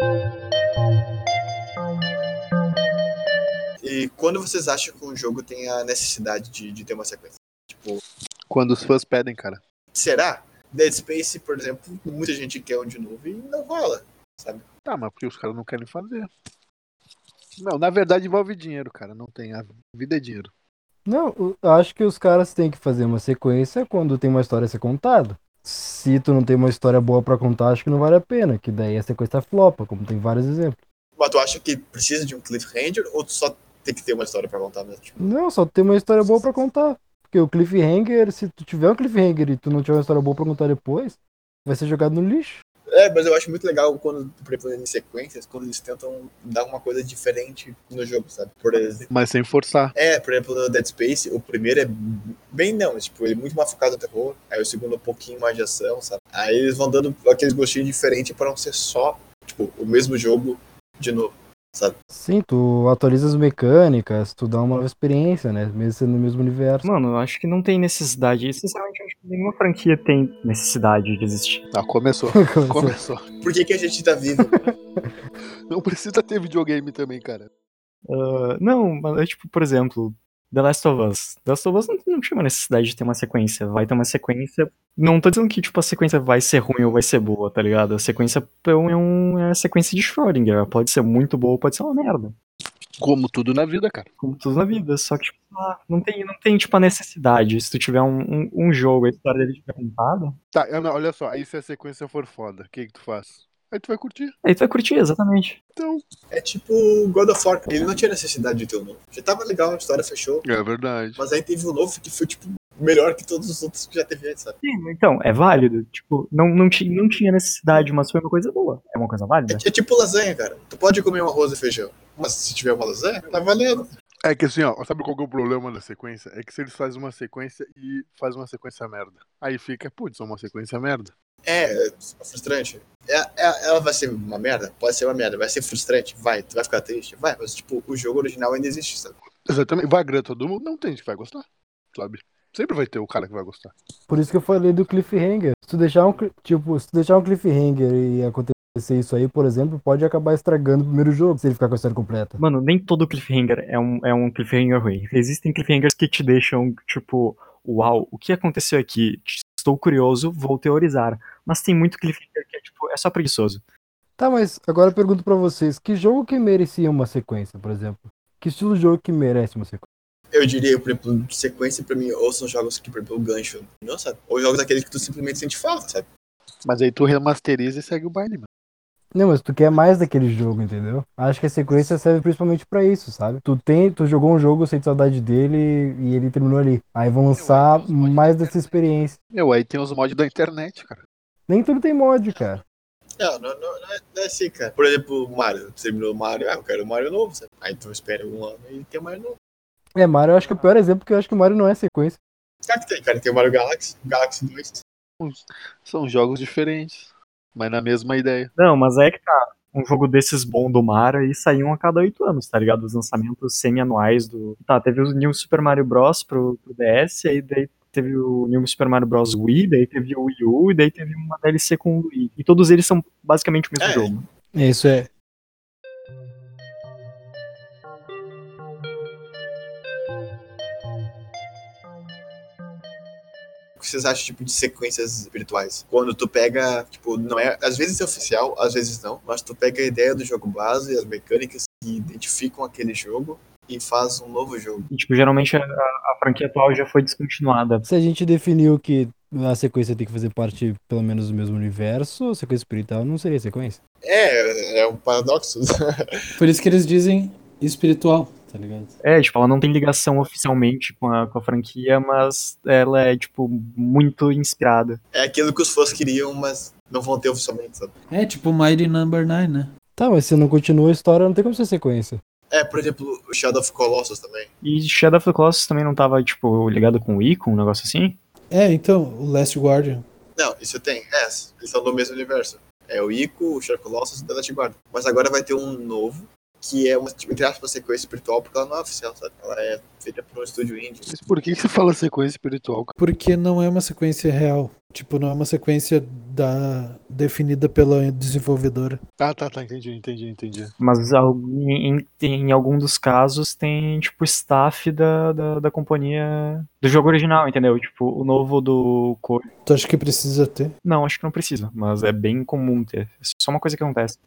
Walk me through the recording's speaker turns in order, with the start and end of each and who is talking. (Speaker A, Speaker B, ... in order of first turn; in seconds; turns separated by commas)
Speaker A: 3.8-8.0, Speaker B: 8.5-9.6, Speaker A: 9.9-14.7, Speaker B: 14.8-16.3, Speaker B: 17.6-20.5, Speaker C: 21.1-30.8, Speaker A: 31.2-35.3, Speaker C: 35.2-42.6, Speaker A: 42.9-49.1, Speaker B: 49.1-49.9, Speaker A: 49.9-61.9, Speaker C: 62.1-66.8, Speaker D: 66.8-71.6, Speaker B: 71.7-73.3, Speaker C: 72.3-73.0, Speaker A: 73.4-74.7, Speaker C: 74.4-74.7, Speaker B: 75.7-77.5, Speaker D: 78.1-92.3, Speaker B: 93.0-94.1, Speaker D: 94.2-100.3, Speaker B: 100.5-104.3, Speaker D: 104.4-105.6, Speaker B: 105.8-106.0, Speaker A: 106.3-110.5, Speaker B: 110.4-111.2, Speaker A: 111.2-114.6, Speaker D: 114.6-119.6, Speaker A: 119.5-123.9, Speaker B: 124.2-131.1, Speaker A: 131.4-139.2, Speaker B: 139.4-143.7, Speaker C: 144.1-152.4, Speaker D: 152.4-163.6, Speaker C: 164.2-169.8, Speaker A: 170.3-176.1, Speaker B: 176.7-178.5, Speaker C: 179.1-189.2, Speaker B: 187.3-188.7, Speaker B: 189.3-191.0, Speaker C: 191.5-192.6, Speaker A: 193.2-199.3, Speaker C: 199.9-202.2, Speaker A: 202.7-204.8, Speaker B: 205.2-208.5, Speaker D: 208.6-224.2, Speaker A: 223.8-224.2, Speaker C: 224.5-225.1, Speaker A: 233.8-244.9, Speaker D: 244.9-247.8, Speaker C: 247.8-253.8, Speaker A: 254.0-256.1, Speaker E: 256.4-258.9, Speaker D: 259.0-265.0, Speaker A: 265.1-267.9, Speaker E: 268.1-269.7, Speaker C: 270.0-272.2, Speaker A: 272.5-274.5, Speaker D: 274.6-278.2, Speaker E: 278.5-280.1, Speaker A: 280.4-291.1, Speaker B: 291.1-292.9, Speaker E: 293.0-299.0, Speaker B: 299.2-300.7, Speaker D: 300.8-309.5, Speaker E: 309.7-310.8, Speaker D: 310.8-314.2